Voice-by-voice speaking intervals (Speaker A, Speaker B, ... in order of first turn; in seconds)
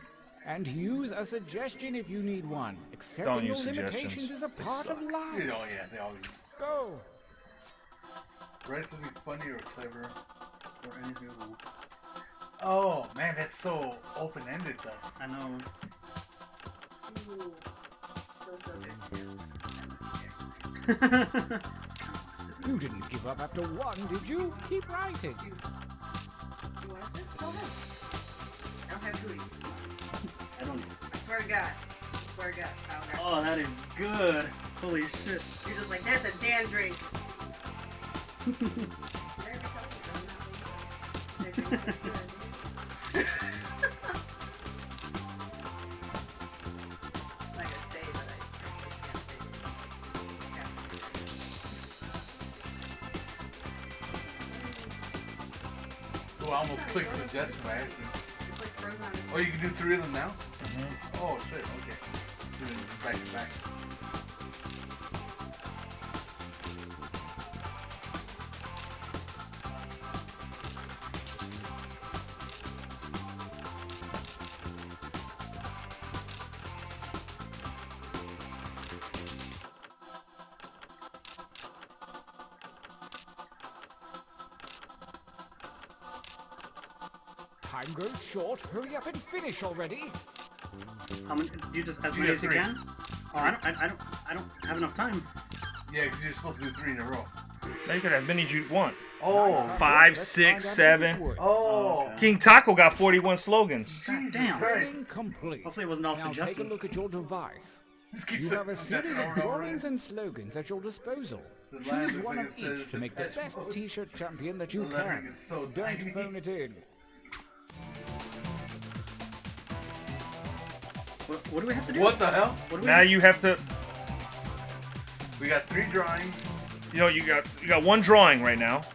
Speaker A: 0.4-5.7, 6.5-7.0, 22.6-25.5, 87.6-90.2, 99.3-101.7, 104.3-107.8, 108.3-116.8
Speaker B: 3.2-5.1, 60.6-61.0, 97.8-101.2, 102.2-104.0, 122.8-123.6, 126.9-128.9
Speaker C: 5.3-6.4, 8.6-10.1, 12.6-15.0, 56.4-58.1, 59.3-60.4, 61.1-62.0, 62.5-63.6, 92.1-92.8, 95.9-97.3, 99.2-100.0, 101.4-102.3, 104.0-105.0, 108.1-109.8, 111.7-113.8, 114.7-116.3, 121.9-122.7, 125.4-126.5
Speaker D: 10.8-11.6, 15.2-15.7, 20.8-22.9, 30.6-30.9, 33.1-35.5, 91.2-95.3, 101.5-102.3, 104.1-104.9, 105.6-106.8, 121.3-123.3
Speaker E: 17.1-17.6, 18.4-20.4, 24.1-24.8, 25.4-25.6, 26.8-27.8, 28.9-29.9, 31.1-33.5, 35.6-37.0, 39.4-42.7, 47.5-51.0, 54.3-55.0, 56.4-60.0